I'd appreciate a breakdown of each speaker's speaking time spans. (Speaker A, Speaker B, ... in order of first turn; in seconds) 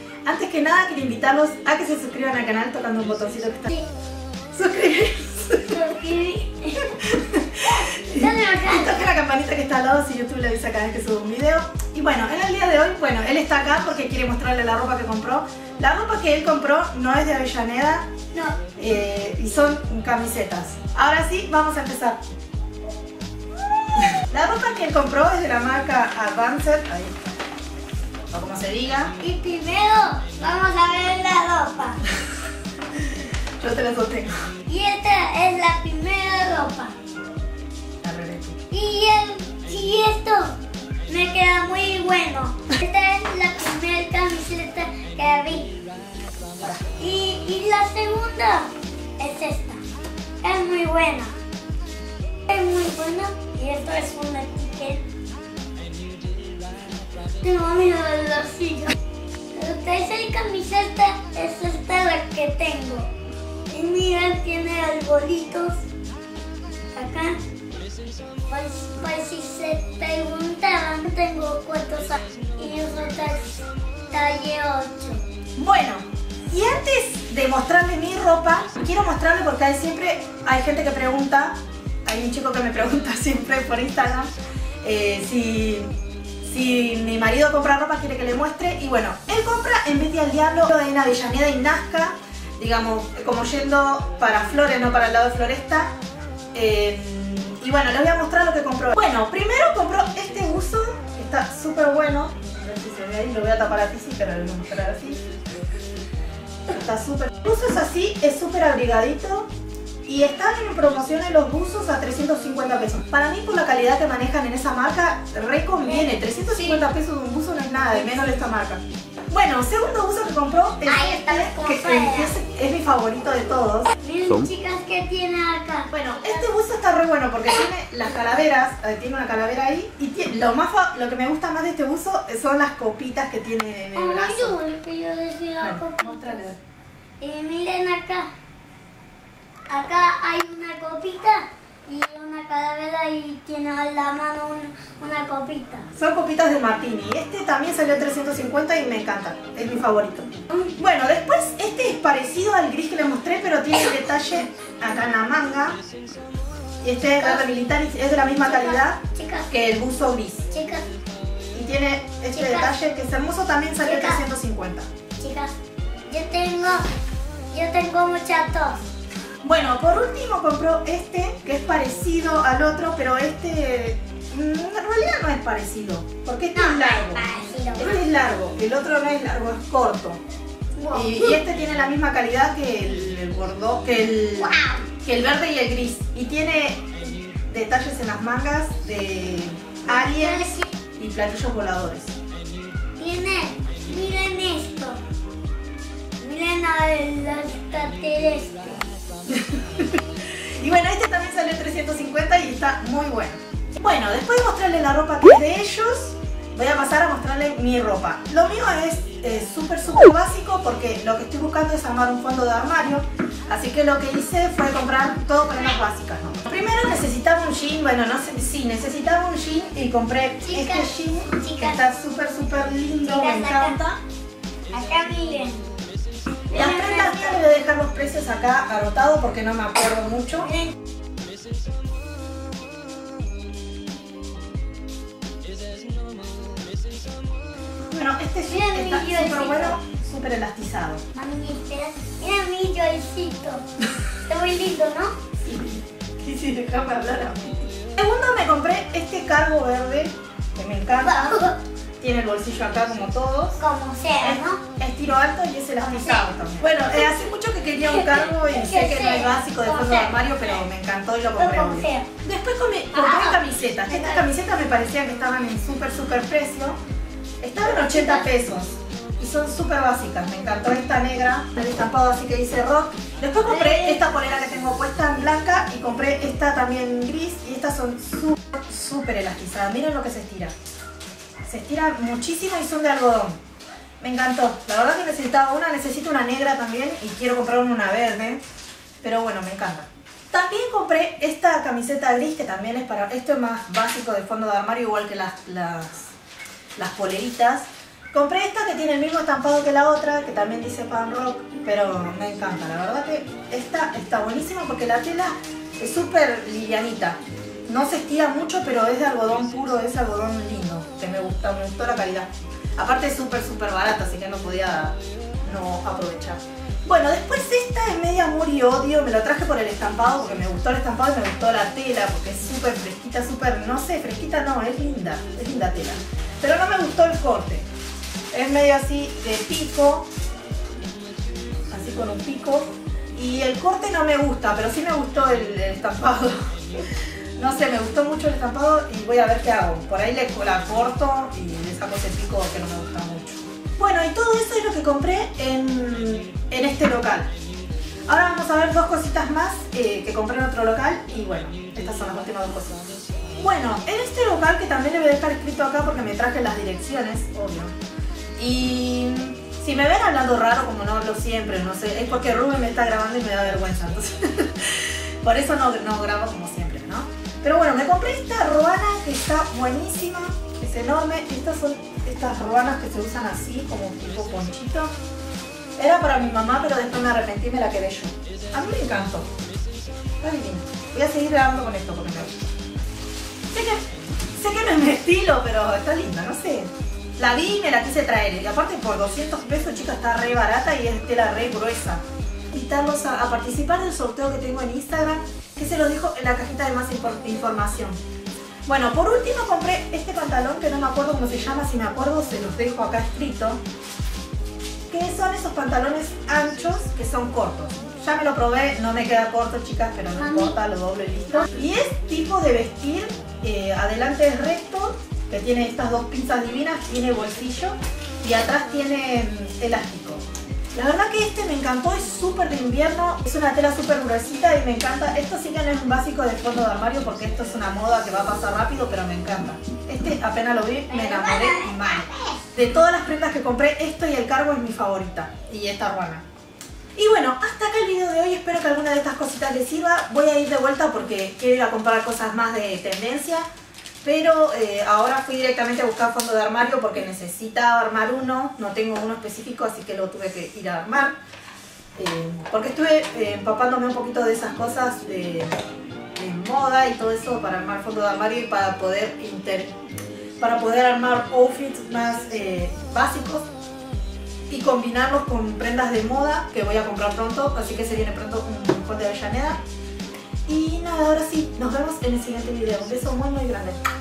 Speaker A: 0.2-3.8, 4.5-5.8, 6.8-18.1, 18.8-22.2, 24.0-27.3, 28.3-29.1, 33.6-34.3, 38.0-38.6, 75.6-84.3, 84.8-85.9, 86.4-95.9, 96.5-105.2, 106.7-109.5, 110.1-123.9, 125.9-134.6, 135.6-136.6, 145.9-155.8, 156.8-160.5, 161.5-164.9, 169.4-177.2, 177.8-180.2, 180.9-192.2, 199.3-224.0, 226.5-230.5, 237.9-241.0, 245.4-251.4, 252.0-253.6, 254.2-266.8, 267.4-280.5, 281.5-283.4, 284.0-288.4, 289.0-296.1, 296.8-327.7, 328.3-330.1, 331.7-347.3, 348.1-352.8, 353.4-357.7, 358.4-374.9, 375.8-379.3, 380.2-382.3, 383.5-383.8, 384.4-398.0, 398.6-403.6, 404.9-420.2, 420.7-436.2, 436.9-443.4, 444.0-451.2, 452.0-455.5, 456.1-459.7, 460.4-463.5, 464.5-469.6, 470.5-473.8
Speaker B: 5.7-6.8, 7.6-9.0, 18.3-18.6, 29.2-32.0, 34.7-37.0, 38.7-40.5, 41.1-45.8, 46.9-49.8, 50.4-51.3, 52.5-55.1, 57.4-58.9, 59.5-63.1, 63.7-65.8, 66.9-67.4, 68.5-75.2, 115.8-116.8, 120.8-122.3, 124.0-126.5, 133.9-136.4, 137.2-138.3, 139.7-145.9, 157.2-157.4, 158.4-159.5, 160.5-160.9, 162.3-162.8, 163.8-164.2, 165.2-165.5, 166.1-166.8, 167.5-168.8, 176.5-178.1, 180.8-181.4, 184.4-184.9, 189.9-190.7, 193.0-195.0, 196.2-198.9, 220.4-221.8, 223.0-223.8, 224.7-225.7, 226.5-227.6, 230.4-230.7, 238.5-239.8, 241.1-243.6, 244.2-245.1, 251.0-251.6, 253.6-254.6, 255.8-256.3, 257.8-260.6, 261.4-262.1, 262.9-264.3, 267.6-268.3, 273.4-274.0, 410.2-410.6, 430.9-432.4